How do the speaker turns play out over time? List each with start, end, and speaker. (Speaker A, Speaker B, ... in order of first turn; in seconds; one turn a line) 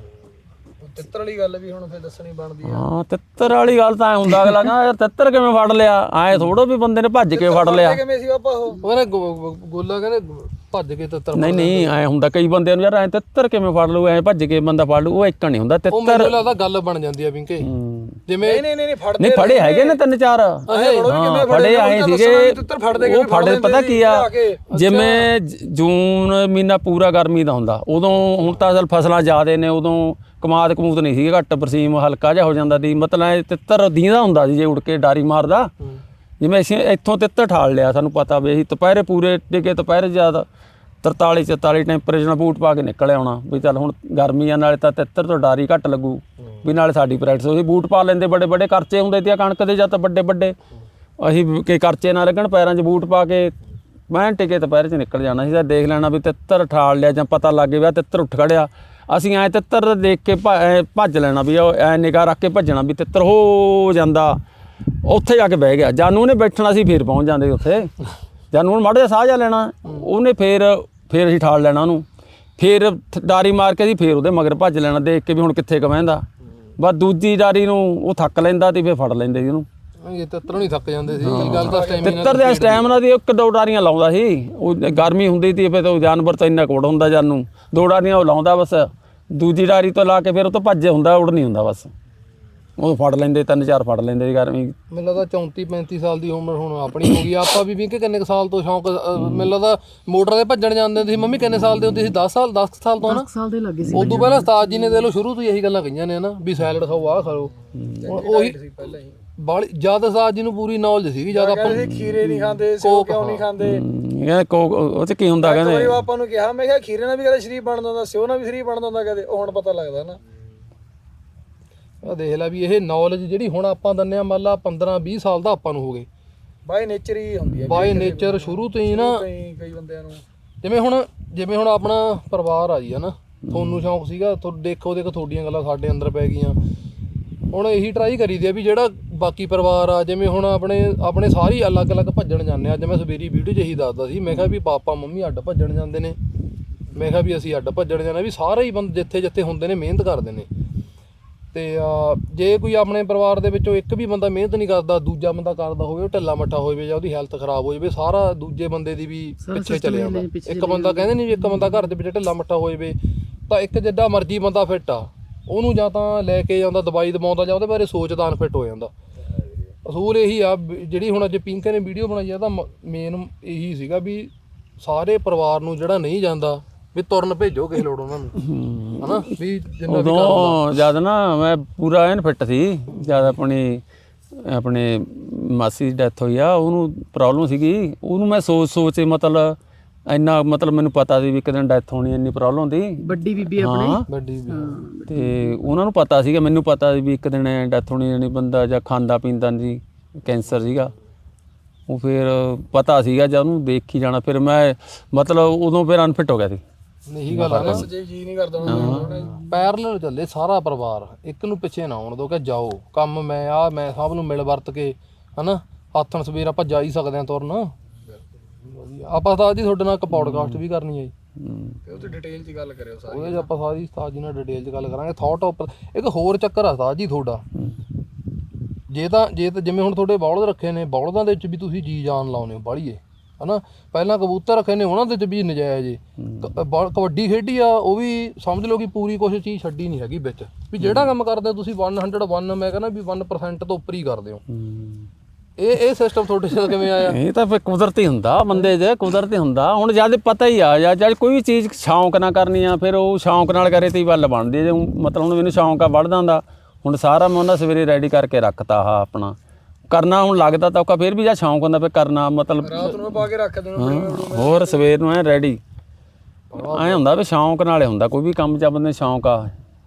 Speaker A: 0.8-2.9
Speaker B: 2.6-8.0
Speaker A: 7.3-8.8
Speaker C: 8.8-11.9
Speaker B: 11.3-16.4
Speaker C: 15.9-17.7
Speaker B: 17.6-18.2
Speaker C: 18.3-18.6
Speaker A: 18.4-20.0
Speaker B: 19.2-35.7
Speaker C: 20.7-21.2
Speaker A: 20.7-24.7
Speaker C: 24.7-25.2
Speaker B: 36.4-40.5
Speaker B: 41.0-50.6
Speaker B: 51.2-53.5
Speaker B: 54.1-64.4
Speaker B: 65.0-72.1
Speaker B: 72.6-76.2
Speaker B: 76.8-79.7
Speaker C: 80.0-82.9
Speaker B: 81.2-91.9
Speaker A: 81.4-82.2
Speaker B: 92.8-94.8
Speaker C: 94.9-103.3
Speaker D: 103.0-105.0
Speaker C: 103.9-107.5
Speaker B: 104.0-104.4
Speaker B: 107.8-108.0
Speaker A: 107.9-109.2
Speaker C: 108.1-108.6
Speaker C: 109.4-111.9
Speaker A: 111.3-113.8
Speaker B: 111.7-112.4
Speaker C: 112.8-113.5
Speaker B: 113.6-116.0
Speaker A: 115.4-120.2
Speaker C: 122.0-126.1
Speaker A: 126.6-130.2
Speaker C: 127.6-129.2
Speaker C: 130.6-136.6
Speaker B: 133.4-133.9
Speaker C: 137.5-146.2
Speaker C: 146.9-150.5
Speaker C: 151.5-163.0
Speaker D: 159.4-161.9
Speaker C: 163.5-168.9
Speaker C: 169.9-180.7
Speaker B: 178.3-179.3
Speaker B: 179.9-194.1
Speaker D: 193.0-195.6
Speaker C: 194.1-194.8
Speaker B: 195.1-200.9
Speaker B: 201.9-206.6
Speaker C: 207.1-207.9
Speaker B: 207.3-207.9
Speaker A: 207.4-209.5
Speaker B: 208.6-209.4
Speaker C: 208.8-217.7
Speaker C: 218.7-221.1
Speaker B: 220.1-220.6
Speaker B: 221.4-221.8
Speaker A: 221.9-223.5
Speaker C: 223.1-227.4
Speaker C: 228.9-244.4
Speaker B: 236.2-236.5
Speaker B: 240.8-241.1
Speaker B: 244.5-245.1
Speaker C: 245.6-247.2
Speaker B: 246.8-259.4
Speaker B: 259.9-265.6
Speaker A: 262.6-264.9
Speaker C: 266.5-267.1
Speaker B: 266.6-269.5